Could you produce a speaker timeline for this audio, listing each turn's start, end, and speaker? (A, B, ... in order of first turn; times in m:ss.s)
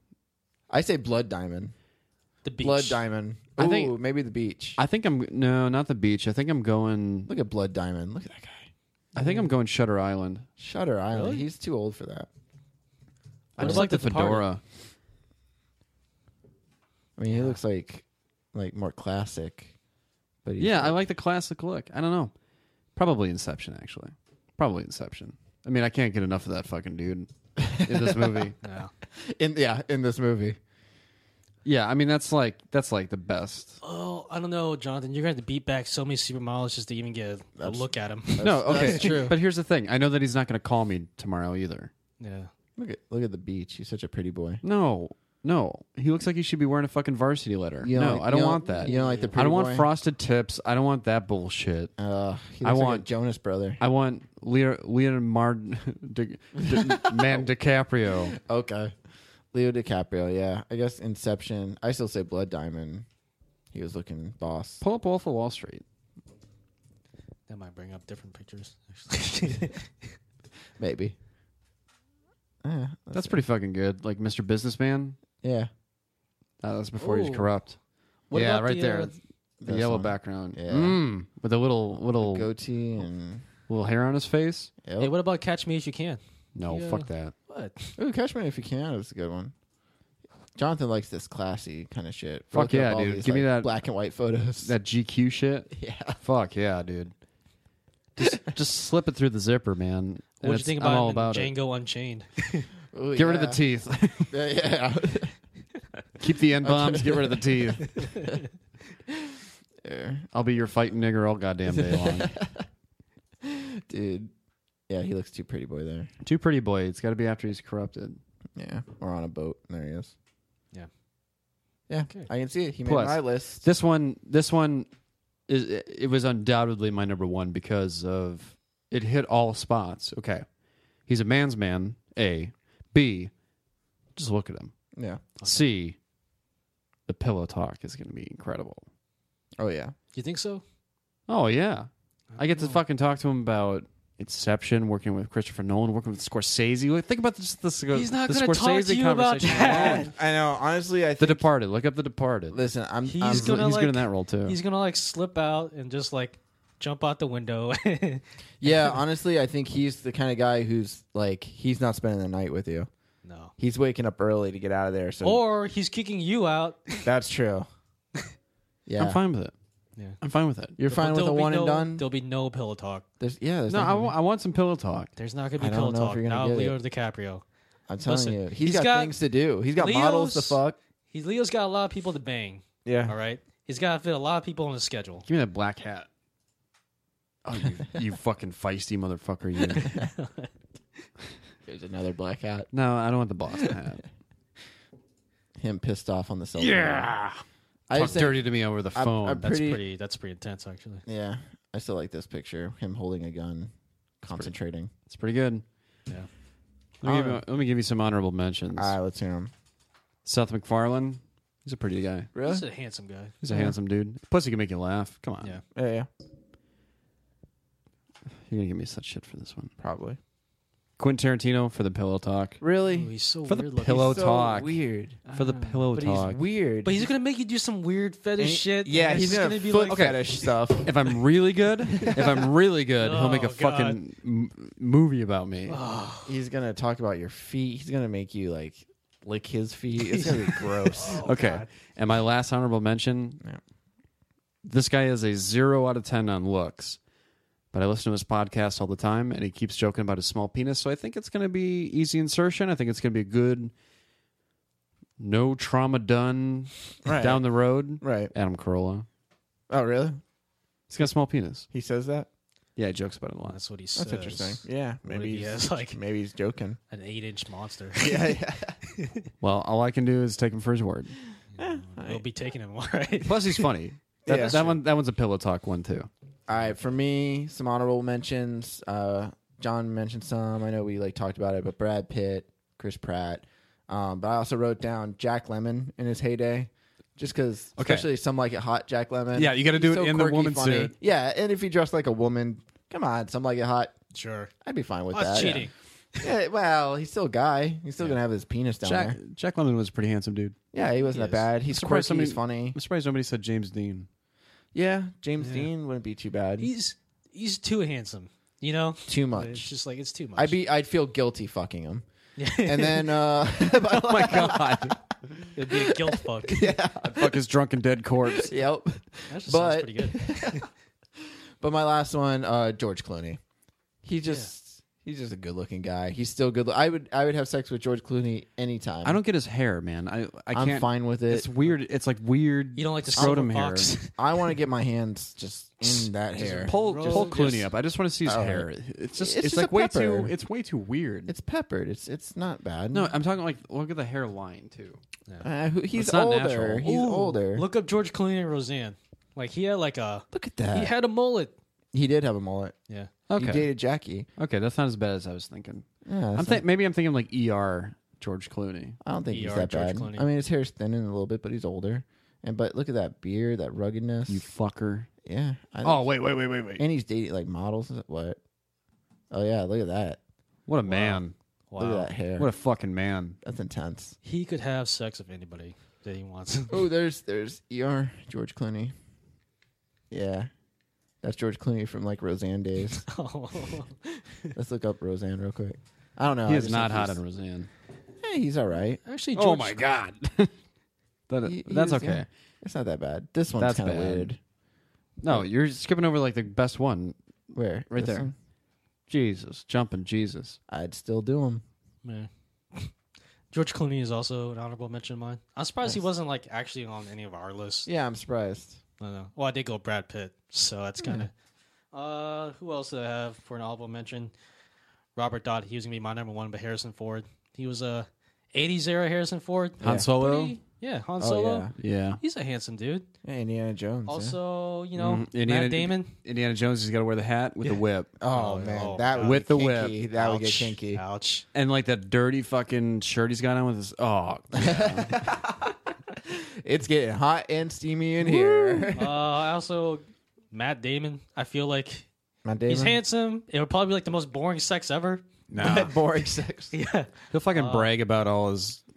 0:00.7-0:01.7 A
0:02.4-0:03.0 B
0:02.6-0:04.8 A
0:03.6-0:04.0 C
0:04.8-0:07.3 C
0:07.3-0:08.7 A
0:09.2-0:10.5 C
0:09.2-0:09.5 B
0:10.6-0:12.3 A
0:11.1-0:11.4 B
0:13.6-0:13.9 A
0:13.6-0:14.6 C
0:13.6-0:14.4 B
0:17.2-0:19.7 A
0:20.4-0:21.0 A
0:20.6-0:22.3 C
0:23.0-0:28.6 C
0:27.6-0:28.5 A
0:28.6-0:28.9 B
0:29.2-0:30.6 A
0:31.6-0:33.8 C
0:33.8-0:39.4 B
0:37.6-0:39.4 A
0:38.4-0:41.9 C
0:42.2-0:42.5 B
0:42.8-0:44.6 A
0:44.6-0:51.9 C
0:47.8-0:49.9 A
0:48.8-0:49.3 B
0:52.0-0:53.8 A
0:52.6-0:53.1 C
0:53.8-0:58.4 C
0:56.6-0:57.5 A
0:58.3-0:58.9 A
0:59.5-1:03.1 A
1:03.7-1:04.8 A
1:04.8-1:05.8 C
1:07.5-1:10.0 B
1:10.8-1:11.2 A
1:12.6-1:13.4 A
1:13.1-1:15.2 C
1:15.4-1:15.7 A
1:16.6-1:17.8 C
1:17.0-1:17.5 B
1:18.3-1:19.1 B
1:18.3-1:22.5 C
1:19.6-1:21.0 A
1:22.2-1:23.4 A
1:23.7-1:24.7 C
1:24.8-1:25.1 A
1:25.0-1:28.0 B
1:26.6-1:27.3 C
1:28.0-1:29.5 A
1:30.6-1:34.7 A
1:32.5-1:33.7 C
1:34.6-1:37.1 C
1:35.7-1:36.2 A
1:38.2-1:41.5 C
1:40.4-1:42.7 B
1:42.9-1:43.6 A
1:43.2-1:44.3 C
1:44.3-1:45.3 A
1:46.2-1:48.0 C
1:46.6-1:47.7 A
1:47.8-1:48.5 B
1:49.8-1:50.3 A
1:50.3-1:52.3 C
1:51.7-1:52.7 A
1:53.4-1:54.3 A
1:54.9-1:56.1 A
1:56.2-1:58.2 C
1:58.6-2:00.1 A
2:01.9-2:03.7 A
2:02.8-2:04.9 C
2:05.5-2:10.4 C
2:11.1-2:13.3 C
2:14.2-2:14.7 C
2:15.0-2:15.2 A
2:15.4-2:16.0 C
2:17.1-2:18.8 C
2:19.6-2:19.9 A
2:20.1-2:20.6 B
2:21.3-2:30.1 C
2:22.3-2:22.8 B
2:27.9-2:30.1 B
2:29.4-2:31.5 A
2:31.2-2:32.6 C
2:32.5-2:33.8 A
2:33.0-2:38.7 B
2:33.3-2:34.6 C
2:38.6-2:42.9 A
2:43.2-2:43.5 B
2:43.6-2:45.4 A
2:45.2-2:47.0 B
2:47.0-2:47.7 A
2:48.9-2:49.2 A
2:49.0-2:49.5 C
2:50.2-2:50.8 C
2:50.8-2:52.0 A
2:50.9-2:53.0 B
2:53.2-2:54.2 A
2:53.7-2:55.1 C
2:55.2-2:57.4 B
2:55.6-2:56.8 A
2:57.9-3:00.8 A
2:58.0-2:59.2 B
2:59.8-3:05.3 B
3:02.8-3:03.1 A
3:05.3-3:06.1 C
3:07.4-3:10.0 C
3:09.7-3:10.5 B
3:11.7-3:12.7 A
3:12.7-3:14.0 C
3:15.6-3:17.1 A
3:16.6-3:17.4 C
3:17.9-3:19.8 A
3:17.9-3:19.5 C
3:19.4-3:21.0 B
3:21.1-3:23.7 A
3:24.2-3:24.9 A
3:25.1-3:25.6 C
3:27.0-3:29.0 C
3:27.0-3:27.4 A
3:28.8-3:29.5 A
3:30.2-3:32.3 C
3:32.3-3:32.7 A
3:32.4-3:33.4 B
3:33.4-3:35.6 C
3:33.5-3:33.7 A
3:35.8-3:36.1 A
3:38.5-3:39.7 C
3:39.8-3:40.2 A
3:41.0-3:42.6 C
3:42.6-3:43.1 A
3:42.9-3:44.2 B
3:43.5-3:44.8 C
3:43.8-3:45.2 A
3:45.3-3:45.8 B
3:45.3-3:46.4 C
3:45.9-3:47.1 A
3:46.8-3:50.4 B
3:48.4-3:51.0 A
3:49.1-3:50.3 C
3:50.8-3:55.8 C
3:52.1-3:52.3 A
3:53.0-3:54.0 B
3:55.7-3:56.4 B
3:56.2-4:01.3 A
4:00.1-4:01.7 B
4:01.2-4:03.4 C
4:04.6-4:07.0 C
4:07.7-4:13.7 C
4:15.2-4:19.1 C
4:17.0-4:17.4 A
4:18.0-4:18.3 A
4:19.7-4:20.2 A
4:20.9-4:21.7 C
4:21.7-4:22.3 A
4:22.8-4:23.6 C
4:23.5-4:26.0 B
4:24.0-4:26.8 A
4:26.9-4:28.3 B
4:28.0-4:28.8 A
4:28.9-4:29.3 B
4:29.4-4:31.1 C
4:31.5-4:33.7 B
4:31.6-4:32.2 A
4:33.2-4:36.1 C
4:34.3-4:34.7 A
4:34.3-4:34.8 B
4:36.5-4:53.9 A
4:47.8-4:48.1 C
4:49.3-4:50.9 C
4:54.1-4:54.5 B
4:54.6-4:55.6 A
4:55.1-4:55.7 B
4:55.3-4:55.7 C
4:56.2-4:59.2 A
4:58.8-5:00.6 C
5:00.7-5:02.8 A
5:01.1-5:01.4 B
5:01.5-5:04.1 C
5:04.7-5:06.7 A
5:05.4-5:05.7 B
5:06.6-5:10.6 B
5:09.1-5:09.8 A
5:10.4-5:17.4 A
5:12.4-5:13.2 B
5:13.7-5:15.0 C
5:15.6-5:16.7 B
5:17.0-5:18.6 C
5:18.3-5:20.7 A
5:19.3-5:20.7 B
5:21.6-5:23.4 A
5:24.0-5:29.2 A
5:29.0-5:33.9 C
5:30.5-5:31.5 A
5:32.8-5:34.2 B
5:34.2-5:37.4 A
5:36.4-5:37.7 B
5:36.6-5:41.3 C
5:38.2-5:40.3 A
5:41.3-5:43.1 A
5:42.9-5:45.0 C
5:45.4-5:47.7 A
5:45.9-5:47.1 C
5:46.9-5:51.5 B
5:50.3-5:50.9 A
5:51.9-5:52.8 A
5:53.3-5:53.7 C
5:53.4-5:54.3 A
5:54.4-5:59.0 C
5:56.1-5:56.6 A
5:59.0-6:04.4 A
5:59.3-6:00.3 B
6:04.3-6:05.1 C
6:05.2-6:06.1 A
6:05.8-6:06.8 C
6:06.8-6:08.4 A
6:09.3-6:10.2 A
6:10.7-6:11.3 C
6:10.8-6:12.1 B
6:11.8-6:12.5 A
6:12.4-6:13.4 C
6:13.4-6:14.2 A
6:14.2-6:16.9 B
6:16.7-6:18.9 A
6:20.1-6:20.5 A
6:21.2-6:23.0 A
6:22.9-6:24.5 B
6:24.6-6:27.2 A
6:26.5-6:27.7 C
6:28.2-6:29.0 A
6:29.1-6:29.9 B
6:29.4-6:30.5 C
6:31.3-6:32.3 C
6:31.4-6:34.4 A
6:33.6-6:34.3 C
6:35.2-6:37.2 C
6:37.5-6:38.3 A
6:37.9-6:38.3 C
6:39.1-6:40.6 C
6:40.7-6:41.6 A
6:42.0-6:42.9 B
6:43.5-6:47.9 B
6:47.9-6:48.8 A
6:49.0-6:51.3 B
6:51.9-6:54.3 B
6:55.2-7:03.1 B
6:59.8-7:00.1 A
6:59.8-7:00.6 C
7:01.2-7:01.7 A
7:01.8-7:02.2 C
7:03.2-7:04.4 A
7:04.1-7:06.1 B
7:05.0-7:08.1 C
7:07.6-7:09.6 B
7:08.2-7:11.0 A
7:09.2-7:10.0 C
7:10.1-7:11.5 B
7:11.5-7:15.3 C
7:14.6-7:19.2 A
7:18.4-7:18.9 C
7:19.0-7:22.1 B
7:22.4-7:23.0 A
7:22.7-7:25.9 B
7:25.5-7:25.9 C
7:25.6-7:26.7 A
7:26.7-7:27.9 B
7:27.3-7:28.8 C